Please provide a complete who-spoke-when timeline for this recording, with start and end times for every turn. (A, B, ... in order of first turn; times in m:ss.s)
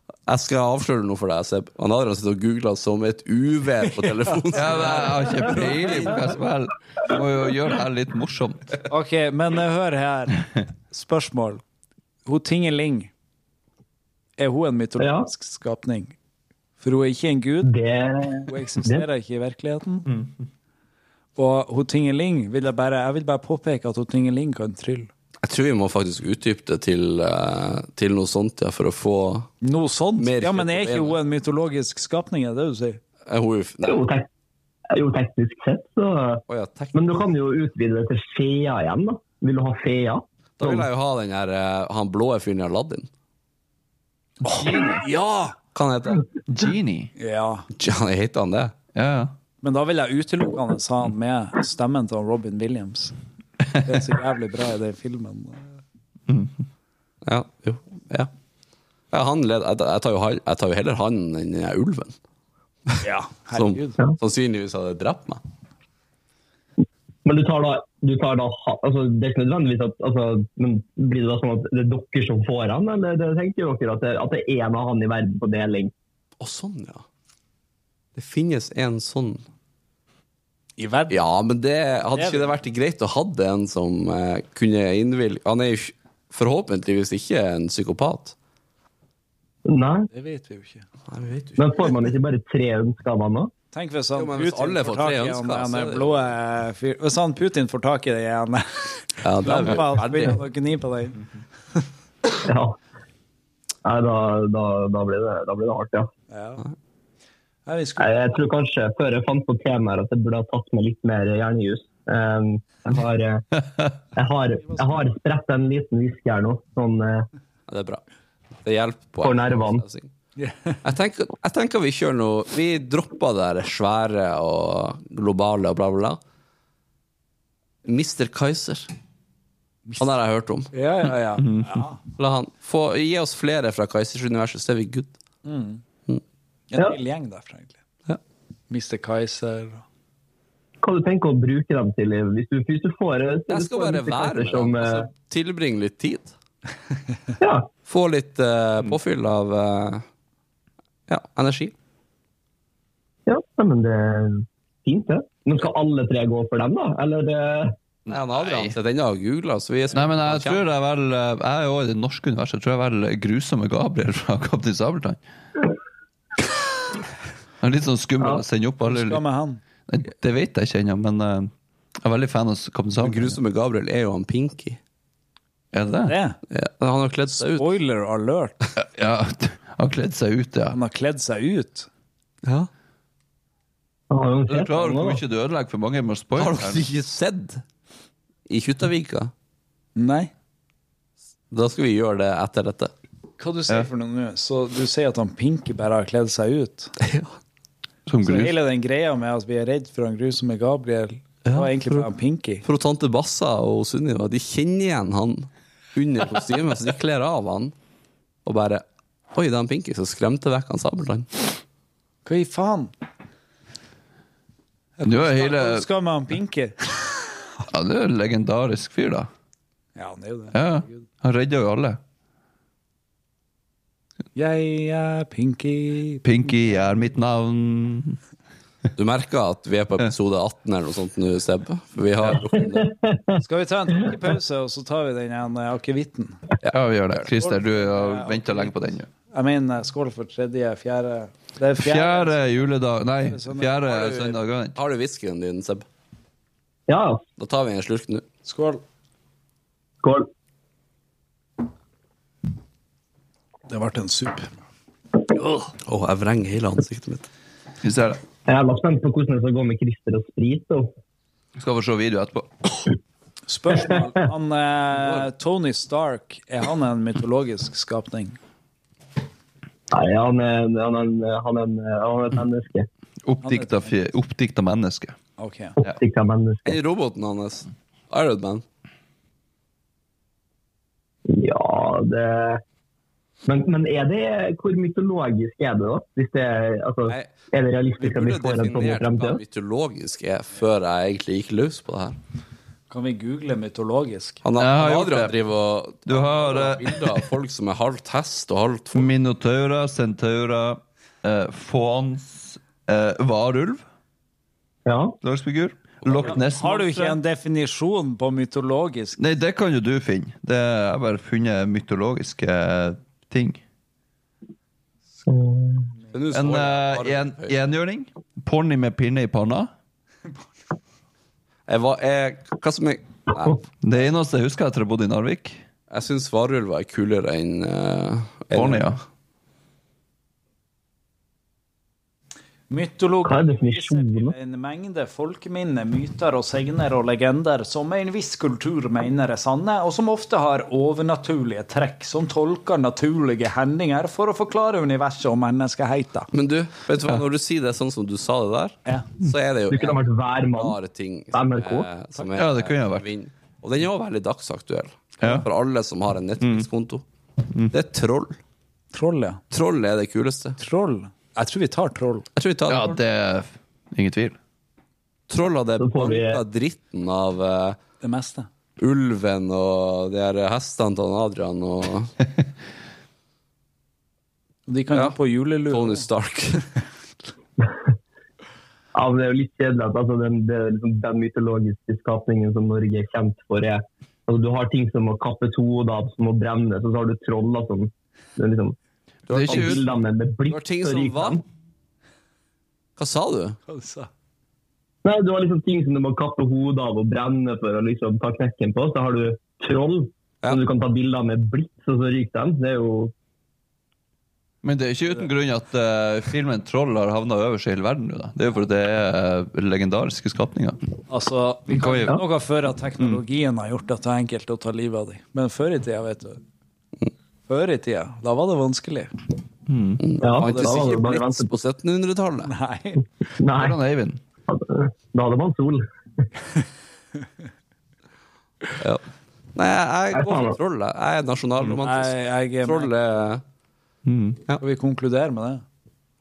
0:00.2-0:06.3 A
0:04.6-0:08.8 B
0:04.6-0:06.1 C
0:08.9-0:11.6 C
0:12.2-0:13.1 C
0:14.4-0:16.1 C
0:15.0-0:15.3 D
0:16.8-0:17.7 C
0:17.6-0:19.0 D
0:18.5-0:20.2 C
0:21.4-0:25.1 C
0:25.4-0:29.5 A
0:29.6-0:33.0 C
0:30.2-0:31.2 A
0:33.3-0:34.0 A
0:33.8-0:34.3 D
0:34.9-0:36.4 D
0:36.5-0:37.2 A
0:36.9-0:40.2 D
0:40.6-0:43.1 A
0:44.4-0:45.6 C
0:44.4-0:45.0 B
0:45.7-0:46.2 A
0:46.5-0:47.1 B
0:47.2-0:47.7 C
0:47.7-0:48.7 A
0:48.9-0:49.3 B
0:49.6-0:53.1 C
0:53.8-0:55.8 C
0:56.3-0:56.6 B
0:57.2-0:58.3 A
0:59.1-1:02.1 A
1:03.0-1:04.0 C
1:03.5-1:05.4 A
1:07.2-1:15.9 D
1:16.4-1:17.0 A
1:18.2-1:19.4 A
1:20.8-1:21.2 C
1:21.1-1:28.3 A
1:22.1-1:22.5 C
1:29.6-1:30.1 D
1:30.1-1:30.8 C
1:31.1-1:31.9 A
1:31.6-1:33.5 D
1:33.7-1:41.2 C
1:34.1-1:36.3 A
1:39.2-1:40.4 A
1:42.4-1:42.8 D
1:43.8-1:46.1 D
1:46.3-1:46.6 C
1:47.6-1:48.4 C
1:48.0-1:53.4 D
1:54.1-1:57.3 D
1:54.7-1:55.0 C
1:57.7-1:58.0 A
1:58.6-2:00.1 A
1:59.2-1:59.8 D
2:00.4-2:00.8 C
2:00.8-2:06.2 A
2:07.8-2:08.9 A
2:09.8-2:10.1 C
2:10.0-2:10.7 A
2:10.7-2:12.0 C
2:11.4-2:11.7 B
2:12.2-2:15.2 A
2:15.4-2:15.8 C
2:16.7-2:17.8 C
2:18.7-2:19.8 C
2:20.8-2:25.1 D
2:23.5-2:26.3 A
2:27.4-2:27.7 D
2:27.8-2:30.0 A
2:31.1-2:31.7 A
2:33.3-2:37.7 D
2:38.1-2:38.7 B
2:38.1-2:40.6 A
2:39.9-2:45.2 B
2:47.6-2:49.2 B
2:48.8-2:49.6 C
2:49.9-2:53.4 B
2:53.0-2:54.8 A
2:55.7-2:56.2 B
2:56.0-2:56.4 C
2:56.5-2:57.7 A
2:57.4-2:58.5 C
2:58.8-3:00.8 B
3:00.7-3:01.9 C
3:02.4-3:02.7 A
3:04.1-3:05.2 D
3:04.5-3:06.9 B
3:06.3-3:07.6 A
3:08.5-3:09.3 A
3:10.0-3:10.3 C
3:11.5-3:12.9 A
3:13.4-3:16.9 C
3:17.0-3:17.3 A
3:18.1-3:18.6 B
3:18.2-3:22.6 C
3:21.4-3:22.1 A
3:22.6-3:27.7 A
3:28.4-3:31.5 A
3:32.2-3:32.9 C
3:35.0-3:37.5 C
3:35.0-3:35.8 B
3:37.7-3:39.3 B
3:40.0-3:41.0 C
3:40.5-3:42.0 B
3:44.3-3:46.2 C
3:46.2-3:48.2 B
3:49.0-3:52.9 A
3:52.8-3:53.4 D
3:53.4-3:56.4 C
3:56.6-3:57.2 A
3:56.7-3:59.1 B
3:57.3-4:03.8 C
4:01.8-4:04.8 B
4:03.9-4:05.8 A
4:06.9-4:07.2 D
4:07.4-4:08.2 A
4:08.4-4:08.8 C
4:13.7-4:14.5 C
4:15.3-4:15.7 C
4:15.9-4:17.2 A
4:17.8-4:18.2 B
4:18.5-4:20.9 D
4:21.6-4:22.9 B
4:23.4-4:28.4 C
4:29.9-4:32.9 D
4:33.2-4:35.2 B
4:33.4-4:34.0 C
4:35.4-4:35.8 C
4:36.0-4:36.8 D
4:36.6-4:38.6 A
4:41.3-4:42.6 D
4:43.4-4:49.4 D
4:48.0-4:52.2 A
4:52.9-4:54.4 C
4:54.4-4:59.1 A
4:54.6-4:55.3 B
4:56.1-4:57.2 B
4:58.9-5:03.8 B
5:04.8-5:05.2 D
5:05.2-5:07.2 B
5:06.0-5:06.4 A
5:06.2-5:09.2 C
5:09.2-5:13.6 B
5:15.2-5:15.9 D
5:16.1-5:17.6 A
5:16.3-5:19.7 B
5:21.7-5:23.6 A
5:23.8-5:25.6 B
5:25.9-5:28.9 A
5:28.5-5:29.0 B
5:32.7-5:46.3 C
5:33.2-5:34.3 D
5:46.3-5:50.0 A
5:49.7-5:50.8 D
5:50.5-5:57.0 A
5:51.3-5:51.9 D
5:52.2-5:53.0 B
5:56.4-5:56.7 B
5:57.7-5:58.4 A
5:58.9-5:59.4 C
5:59.5-6:00.6 A
6:00.6-6:02.2 C
6:02.3-6:03.0 A
6:02.7-6:04.4 B
6:05.3-6:07.8 A
6:05.8-6:06.4 D
6:08.0-6:08.5 C
6:08.8-6:12.1 A
6:14.7-6:16.0 C
6:15.7-6:16.6 A
6:18.9-6:28.8 D
6:29.3-6:29.9 A
6:29.3-6:29.8 B
6:29.5-6:31.4 D
6:30.5-6:31.4 A
6:33.0-6:33.6 A
6:33.7-6:34.1 C
6:35.0-6:43.1 D
6:44.6-6:50.8 B
6:51.1-6:56.4 C
6:51.7-6:52.2 B
6:57.5-6:59.1 C
6:59.7-7:00.0 B
7:00.0-7:02.5 A
7:00.2-7:01.5 D
7:00.6-7:00.8 C
7:02.4-7:03.0 C
7:03.4-7:03.8 D
7:03.6-7:04.2 B
7:04.5-7:05.8 D
7:09.5-7:13.4 A
7:10.1-7:10.6 D
7:11.8-7:12.9 C
7:14.0-7:14.4 B
7:14.6-7:15.6 C